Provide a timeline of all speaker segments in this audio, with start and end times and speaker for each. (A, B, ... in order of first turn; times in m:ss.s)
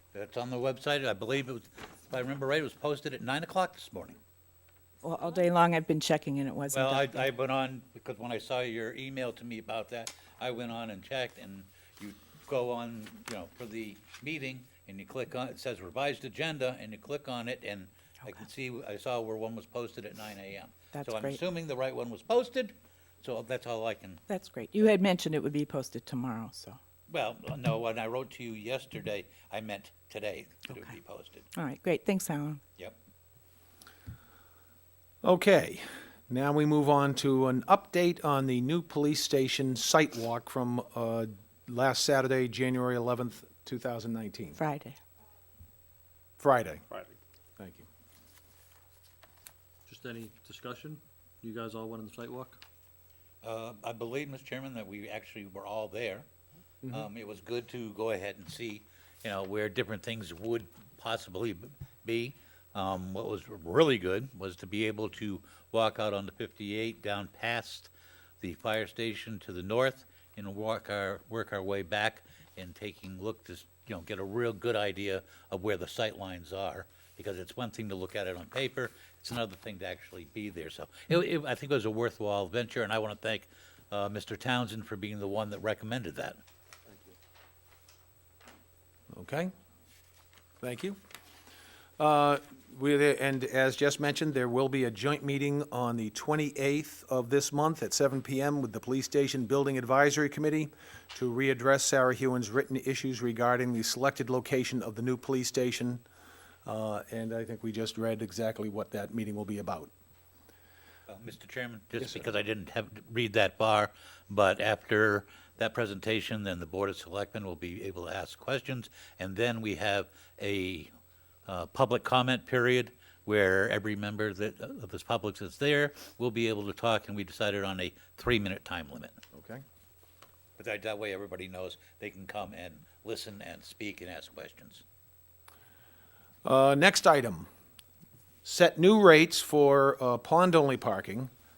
0:00.1-0:04.2 A
0:05.0-0:07.2 B
0:06.7-0:24.2 A
0:20.9-0:21.4 B
0:24.3-0:26.8 B
0:27.1-0:31.5 A
0:31.5-0:32.6 B
0:35.2-0:44.6 C
0:44.6-0:45.0 B
0:46.4-0:46.8 C
0:47.6-0:47.8 C
0:49.9-0:52.6 D
0:53.4-0:56.3 A
0:56.8-1:26.4 A
1:29.1-1:29.5 C
1:30.6-1:31.0 C
1:32.0-1:46.0 C
1:46.6-1:49.9 C
1:51.1-2:00.9 A
2:01.4-2:09.2 A
2:09.3-2:09.6 C
2:10.6-2:14.8 A
2:16.4-2:17.5 C
2:18.4-2:21.3 C